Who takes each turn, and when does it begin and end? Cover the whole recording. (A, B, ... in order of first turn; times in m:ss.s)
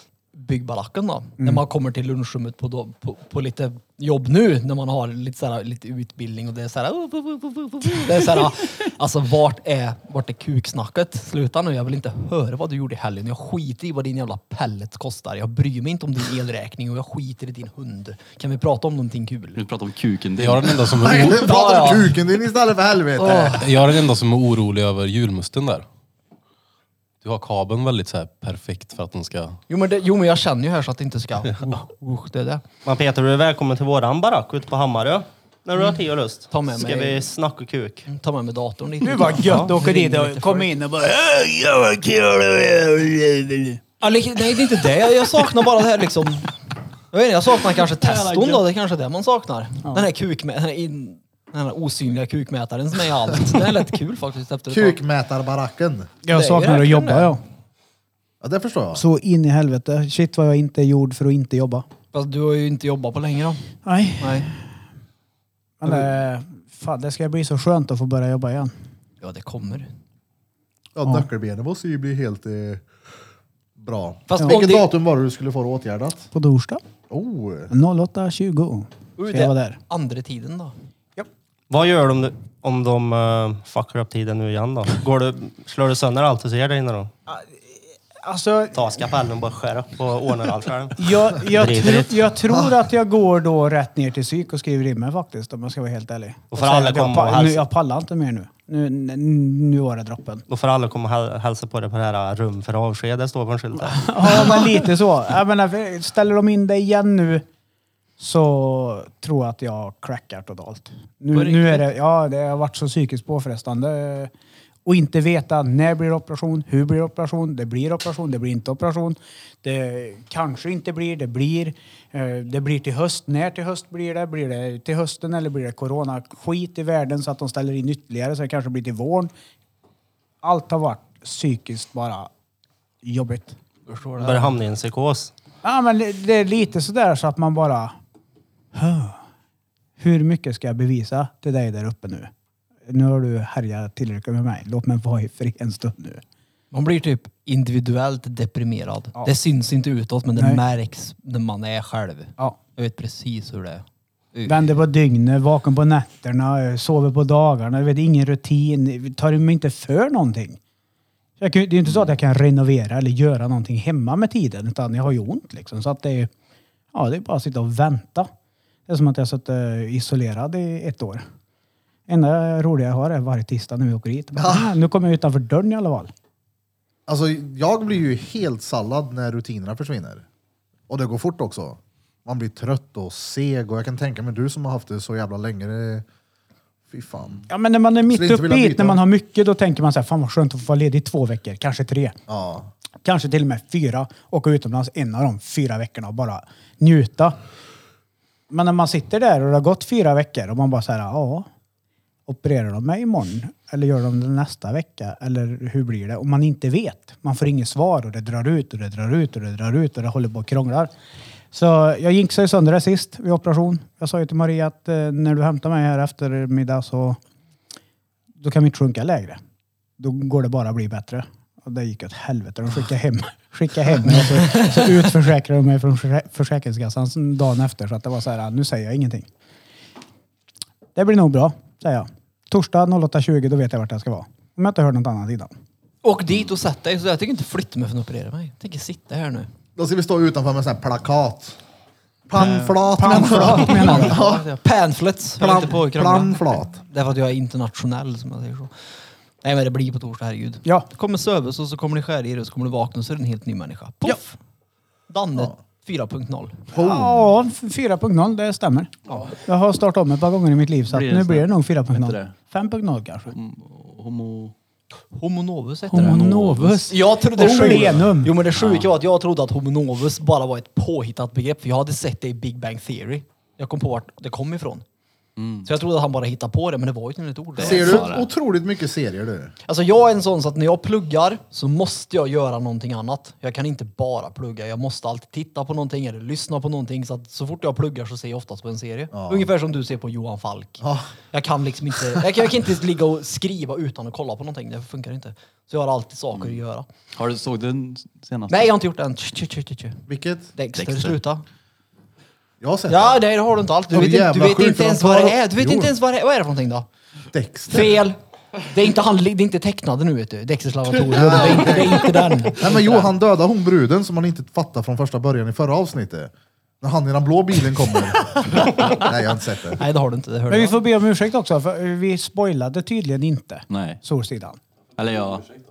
0:00.3-0:19.6 A
0:19.5-0:21.1 B
0:20.4-0:21.5 C
0:21.0-0:23.6 D
0:21.2-0:22.2 A
0:23.2-0:23.7 A
0:23.5-0:25.8 C
0:27.2-0:29.6 C
0:29.7-0:32.6 A
0:32.8-0:38.1 E
0:36.5-0:37.3 A
0:38.1-0:40.7 A
0:39.0-0:43.8 F
0:44.0-0:46.5 A
0:47.1-0:55.0 A
0:48.0-0:48.6 B
0:54.7-0:56.1 D
0:56.2-0:57.4 F
0:56.3-0:57.4 A
0:58.4-0:59.0 D
0:58.9-1:01.8 F
1:02.1-1:03.7 A
1:03.8-1:04.6 F
1:04.2-1:04.5 A
1:05.8-1:08.7 F
1:09.2-1:09.9 A
1:10.9-1:12.9 D
1:13.8-1:16.3 D
1:14.3-1:14.9 A
1:16.3-1:16.8 F
1:17.1-1:17.7 D
1:17.7-1:19.8 F
1:19.2-1:20.7 A
1:21.7-1:27.1 E
1:28.2-1:28.8 F
1:28.7-1:32.3 E
1:31.0-1:40.4 F
1:36.5-1:37.6 E
1:40.5-1:44.6 E
1:43.8-1:47.4 F
1:48.2-1:54.3 F
1:51.3-1:51.8 A
1:54.8-2:09.3 F
2:10.4-2:12.3 F
2:13.0-2:13.6 F
2:13.9-2:14.5 A
2:14.2-2:15.3 E
2:15.6-2:17.9 F
2:18.7-2:19.2 F
2:20.0-2:22.3 F
2:22.9-2:26.2 F
2:26.7-2:34.6 A
2:34.4-2:40.6 F
2:41.4-2:46.3 F
2:41.9-2:42.1 B
2:46.9-2:48.3 F
2:48.9-2:51.2 F
2:52.1-2:56.1 F
2:54.4-2:54.7 D
2:57.1-3:00.2 D
3:00.9-3:06.0 D
3:06.9-3:07.4 D
3:07.5-3:12.2 F
3:08.1-3:09.0 D
3:12.3-3:12.7 D
3:13.0-3:17.4 F
3:18.5-3:21.5 F
3:22.3-3:30.9 F
3:31.5-3:37.2 F
3:38.4-3:39.4 F
3:40.0-3:49.2 F
3:44.1-3:44.8 A
3:50.9-3:55.5 F
3:56.0-3:59.5 A
3:59.8-4:01.6 D
4:02.3-4:04.4 D
4:02.4-4:04.2 F
4:03.1-4:08.7 A
4:05.4-4:06.8 D
4:09.4-4:14.4 A
4:15.1-4:16.7 A
4:16.7-4:17.2 D
4:16.7-4:18.9 F
4:19.4-4:23.3 F
4:20.9-4:22.3 B
4:23.3-4:24.5 B
4:25.1-4:26.2 A
4:25.9-4:28.3 F
4:26.0-4:27.0 B
4:26.9-4:34.8 A
4:27.6-4:28.9 B
4:35.4-4:35.7 B
4:35.6-4:38.1 A
4:37.6-4:38.3 B
4:37.6-4:39.5 D
4:39.6-4:56.8 A
4:49.1-4:49.5 D
4:50.8-4:51.1 D
4:57.2-4:58.7 B
4:58.5-5:00.0 A
5:00.1-5:00.5 D
5:00.6-5:01.4 A
5:00.7-5:01.2 B
5:02.6-5:03.2 D
5:02.9-5:06.8 A
5:03.9-5:05.9 D
5:07.3-5:08.0 D
5:07.7-5:13.1 A
5:11.1-5:19.8 D
5:18.4-5:19.0 A
5:19.8-5:20.8 A
5:20.5-5:24.6 F
5:23.7-5:24.0 B
5:25.0-5:25.5 B